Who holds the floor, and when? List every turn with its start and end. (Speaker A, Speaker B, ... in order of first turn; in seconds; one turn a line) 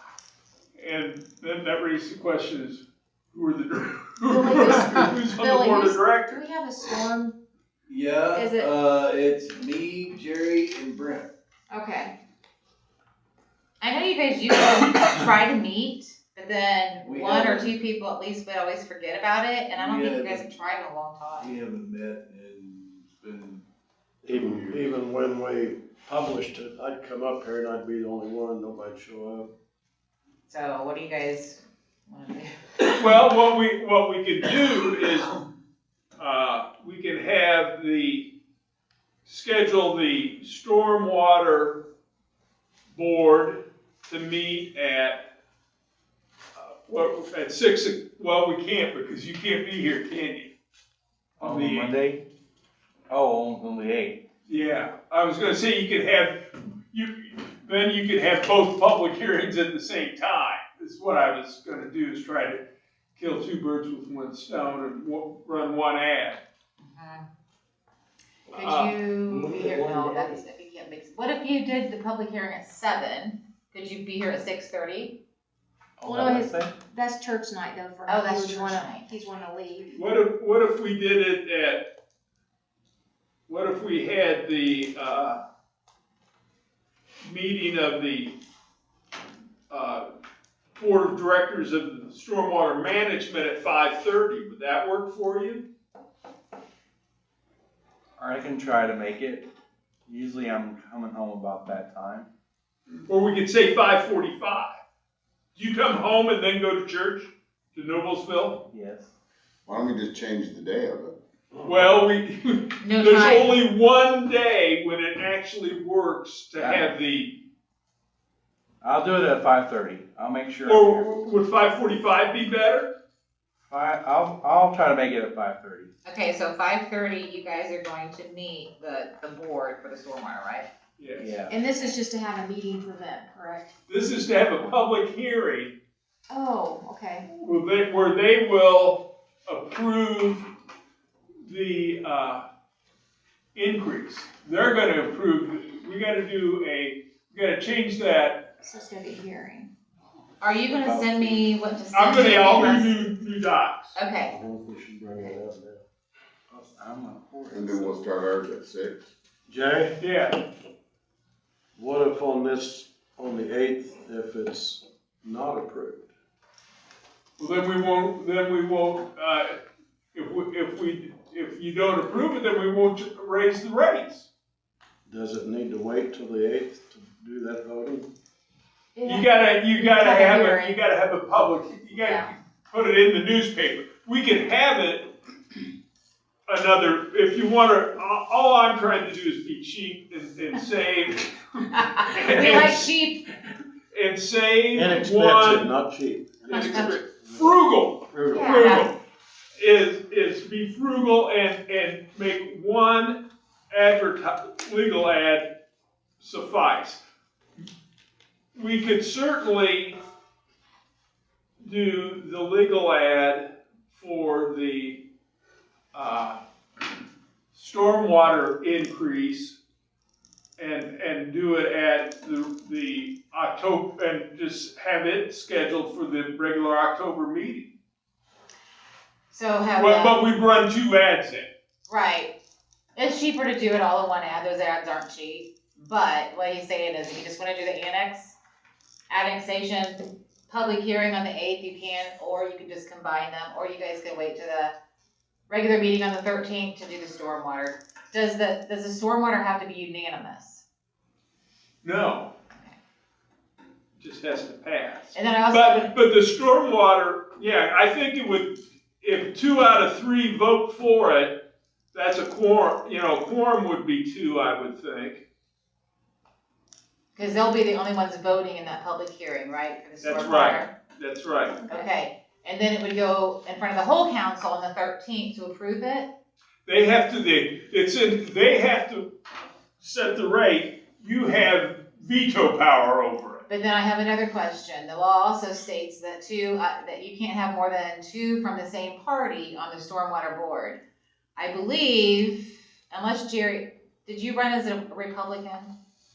Speaker A: 0.8-6.4
Speaker B: 4.3-7.3
Speaker C: 7.9-11.3
Speaker B: 8.3-8.7
Speaker B: 11.7-12.2
Speaker D: 13.8-21.6
Speaker C: 17.1-17.7
Speaker C: 19.7-20.4
Speaker C: 21.4-23.6
Speaker E: 24.2-29.5
Speaker D: 30.5-32.9
Speaker A: 32.9-35.4
Speaker A: 36.2-38.3
Speaker A: 39.2-41.8
Speaker A: 42.9-45.3
Speaker A: 46.5-50.5
Speaker A: 51.4-51.9
Speaker F: 51.4-52.2
Speaker F: 53.1-54.2
Speaker A: 54.5-62.6
Speaker A: 63.1-66.4
Speaker D: 66.8-67.2
Speaker D: 68.5-75.2
Speaker A: 68.5-68.9
Speaker F: 76.0-76.7
Speaker B: 76.0-79.9
Speaker D: 78.0-79.1
Speaker A: 79.9-81.8
Speaker A: 83.5-85.4
Speaker A: 87.2-88.3
Speaker A: 89.7-90.1
Speaker A: 90.8-95.7
Speaker F: 98.2-99.5
Speaker F: 100.1-102.3
Speaker A: 103.1-104.7
Speaker A: 105.5-108.6
Speaker F: 108.7-109.1
Speaker G: 109.7-111.2
Speaker A: 111.6-117.4
Speaker D: 112.8-113.6
Speaker F: 116.6-116.9
Speaker F: 118.8-121.3
Speaker A: 120.6-122.9
Speaker F: 123.7-125.9
Speaker D: 126.0-130.7
Speaker A: 131.0-131.3
Speaker F: 131.2-131.6
Speaker B: 131.5-133.7
Speaker A: 133.9-135.7
Speaker B: 136.3-137.3
Speaker A: 137.3-140.5
Speaker A: 141.4-142.4
Speaker A: 143.5-148.5
Speaker B: 148.6-149.7
Speaker D: 150.4-153.1
Speaker F: 150.7-151.5
Speaker A: 151.9-154.0
Speaker D: 153.9-154.3
Speaker E: 154.2-155.8
Speaker F: 156.5-158.0
Speaker G: 157.5-159.0
Speaker E: 159.5-159.9
Speaker A: 160.0-160.3
Speaker E: 161.8-166.1
Speaker A: 167.4-169.6
Speaker A: 170.1-174.3
Speaker E: 175.1-178.1
Speaker B: 178.9-180.8
Speaker A: 179.0-185.1
Speaker D: 182.0-182.3
Speaker A: 186.5-192.9
Speaker D: 191.7-193.2
Speaker A: 193.9-195.7
Speaker E: 194.7-197.6
Speaker A: 196.5-199.0
Speaker D: 196.5-196.9
Speaker E: 198.1-198.6
Speaker D: 198.3-198.9
Speaker A: 199.6-205.5
Speaker A: 206.2-207.0
Speaker A: 208.5-210.0
Speaker A: 211.6-215.0
Speaker A: 215.9-216.4
Speaker A: 217.5-219.6
Speaker A: 220.6-227.7
Speaker D: 229.3-230.2
Speaker A: 229.8-231.5
Speaker D: 231.9-232.3
Speaker D: 232.9-238.4
Speaker D: 239.1-244.7
Speaker D: 245.5-250.6
Speaker A: 251.8-252.3
Speaker A: 254.0-261.4
Speaker D: 255.1-255.9
Speaker A: 261.9-265.2
Speaker D: 267.1-270.7
Speaker A: 270.0-271.6
Speaker D: 271.7-276.1
Speaker A: 276.6-279.1
Speaker A: 279.8-283.4
Speaker D: 283.5-290.8
Speaker D: 291.4-295.7